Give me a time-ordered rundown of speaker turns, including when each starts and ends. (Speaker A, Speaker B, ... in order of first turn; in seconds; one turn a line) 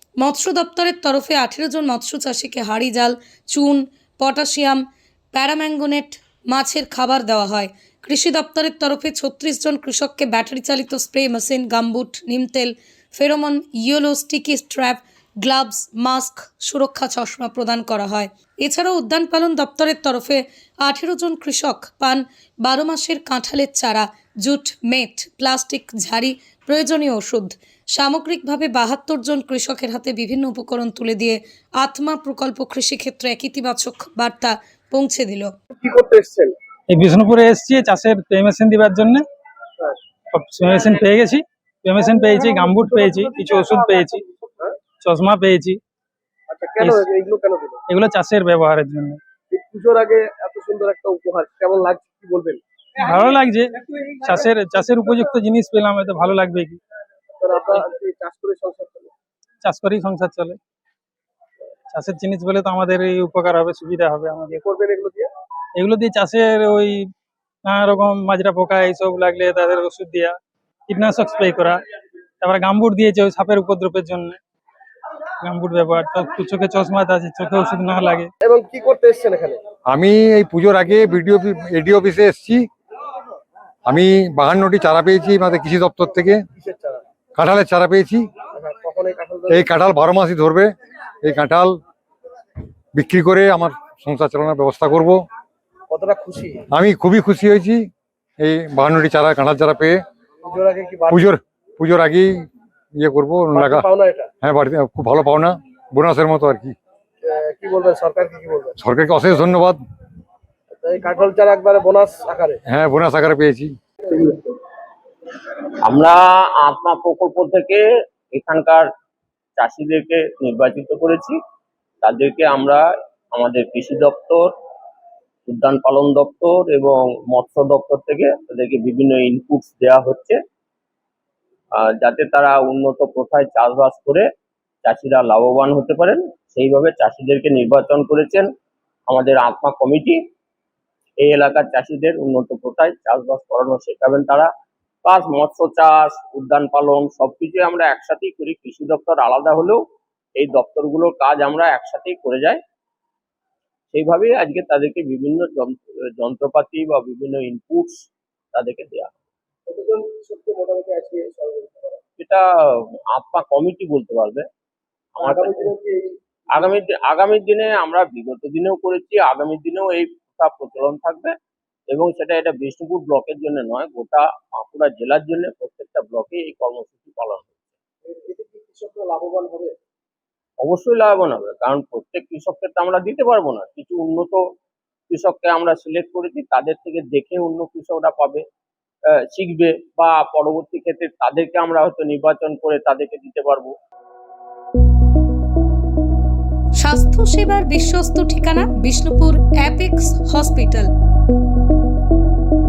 Speaker A: 0.2-4.8
Speaker A: 5.3-35.5
Speaker B: 35.8-36.5
Speaker C: 36.9-39.2
Speaker C: 40.3-44.2
Speaker B: 42.0-44.0
Speaker C: 45.0-45.8
Speaker B: 46.5-47.8
Speaker C: 46.8-47.0
Speaker C: 47.9-49.2
Speaker B: 49.5-52.6
Speaker C: 53.0-56.8
Speaker B: 57.4-59.1
Speaker C: 59.6-60.6
Speaker C: 61.9-64.6
Speaker B: 64.5-65.3
Speaker C: 65.8-67.1
Speaker C: 67.6-70.4
Speaker C: 70.9-71.8
Speaker C: 72.4-74.4
Speaker C: 75.4-78.3
Speaker B: 78.4-79.6
Speaker D: 79.9-82.7
Speaker D: 83.9-86.4
Speaker B: 86.5-87.0
Speaker D: 87.4-88.3
Speaker B: 88.5-89.7
Speaker D: 89.5-90.7
Speaker D: 91.2-91.8
Speaker D: 92.9-95.2
Speaker B: 95.9-96.6
Speaker D: 96.7-97.9
Speaker D: 98.4-100.0
Speaker B: 100.4-101.2
Speaker D: 101.1-102.5
Speaker D: 103.0-103.8
Speaker B: 103.5-104.3
Speaker D: 104.4-106.7
Speaker B: 107.2-108.8
Speaker D: 108.8-109.8
Speaker B: 110.7-112.6
Speaker D: 112.7-113.7
Speaker B: 114.0-114.5
Speaker E: 115.8-118.9
Speaker E: 119.6-121.4
Speaker E: 122.0-124.5
Speaker E: 125.5-130.4
Speaker E: 131.8-134.2
Speaker E: 134.8-138.5
Speaker E: 139.1-140.2
Speaker E: 141.2-144.5
Speaker E: 145.1-149.8
Speaker E: 150.4-152.6
Speaker E: 153.9-158.0
Speaker E: 158.5-159.1
Speaker B: 159.7-162.0
Speaker E: 163.1-164.4
Speaker E: 165.2-165.7
Speaker B: 165.2-166.1
Speaker E: 166.6-171.3
Speaker E: 171.9-177.5
Speaker B: 178.1-179.7
Speaker E: 180.6-184.4
Speaker E: 185.1-188.4
Speaker E: 189.3-193.7
Speaker A: 196.8-200.9